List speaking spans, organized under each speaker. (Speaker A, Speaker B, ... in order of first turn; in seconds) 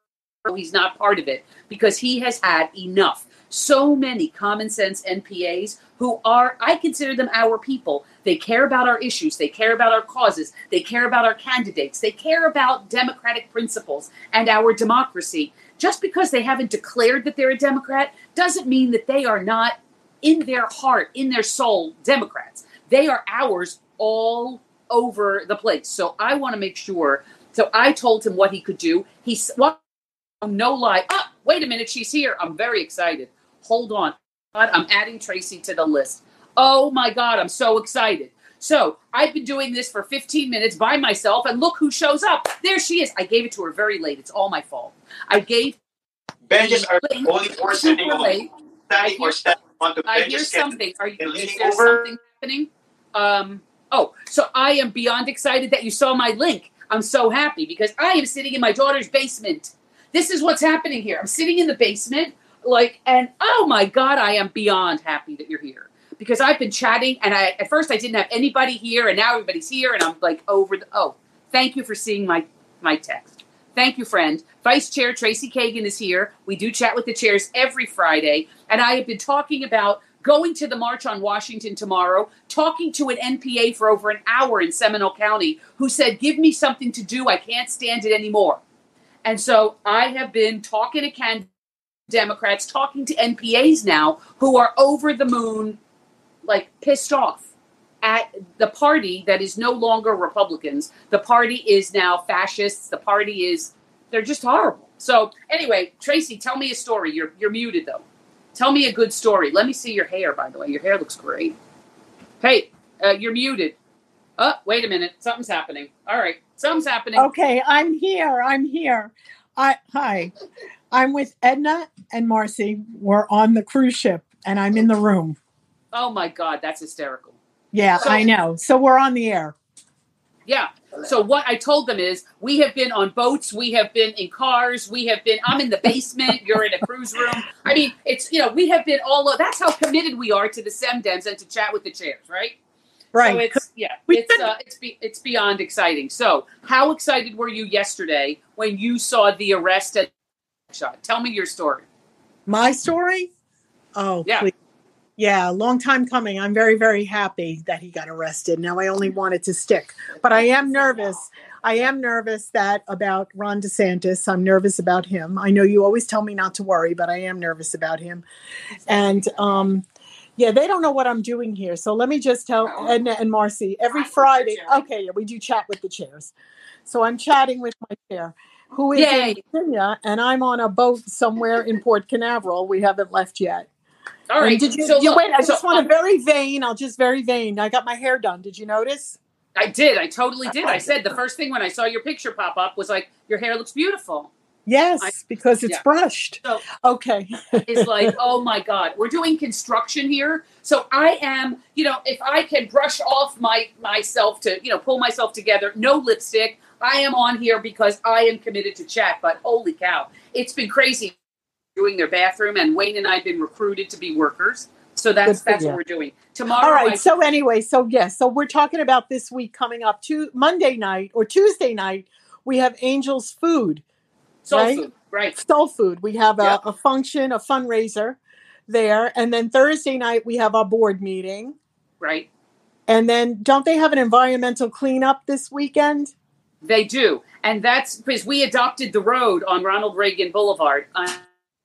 Speaker A: 0.4-29.8, 30.4-45.8, 46.6-49.4, 50.1-88.6, 89.2-91.5, 92.1-95.8, 96.5-97.5, 98.0-111.5, 112.4-113.8, 114.4-117.3, 125.9-127.4, 128.0-128.2, 130.5-142.6, 143.2-150.1, 150.7-151.8, 154.2-154.5, 178.9-179.4, 184.3-185.8, 189.6-194.3, 197.7-211.1, 211.8-217.0, 224.4-225.3, 232.0-232.3, 236.6-241.2
Speaker B: 46.5-52.0
Speaker C: 117.2-120.3, 120.9-125.4, 127.7-129.5, 143.1-144.5, 152.4-153.3, 153.9-154.5, 155.2-168.2, 168.8-169.8, 170.4-176.3, 176.8-183.7, 184.4-189.2, 194.7-198.1, 215.3-215.8, 216.6-223.8, 224.5-224.8, 225.3-231.5, 232.9-236.1